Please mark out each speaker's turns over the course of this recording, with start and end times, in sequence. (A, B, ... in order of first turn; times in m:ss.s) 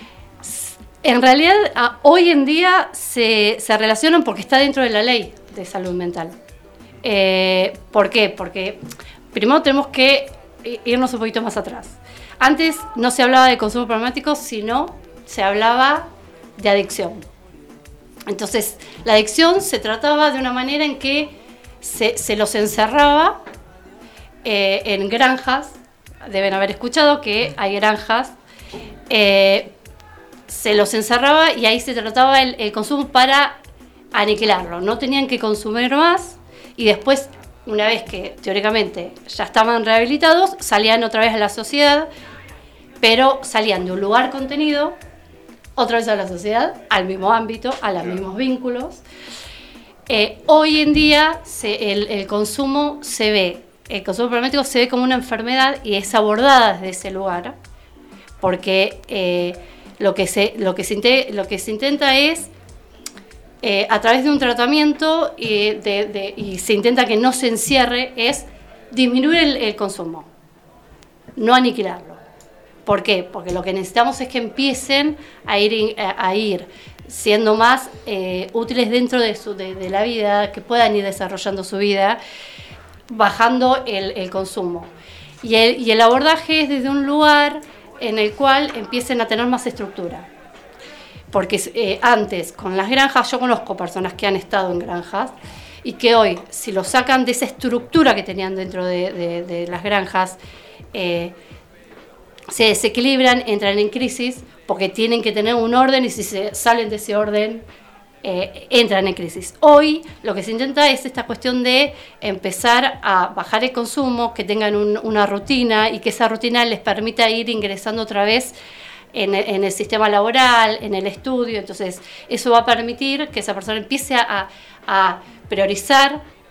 0:00.4-0:06.3 A
0:07.0-0:17.3 A
0:18.3-0:23.4 A
0:24.4-0:28.3 A
0:29.1-0:29.7 A
0:30.5-0:33.6 A
0:34.1-0:42.1 A
0:43.0-0:45.0 A
0:45.8-0:49.0 A
0:50.1-0:57.6 A
0:58.4-1:02.5 A
1:03.6-1:10.3 A
1:11.4-1:12.2 A
1:12.8-1:22.2 A
1:23.1-1:24.9 A
1:25.4-1:30.3 A
1:31.3-1:40.4 A
1:40.9-1:41.3 A
1:42.5-1:47.6 A
1:48.2-1:58.6 A
1:59.1-2:06.2 A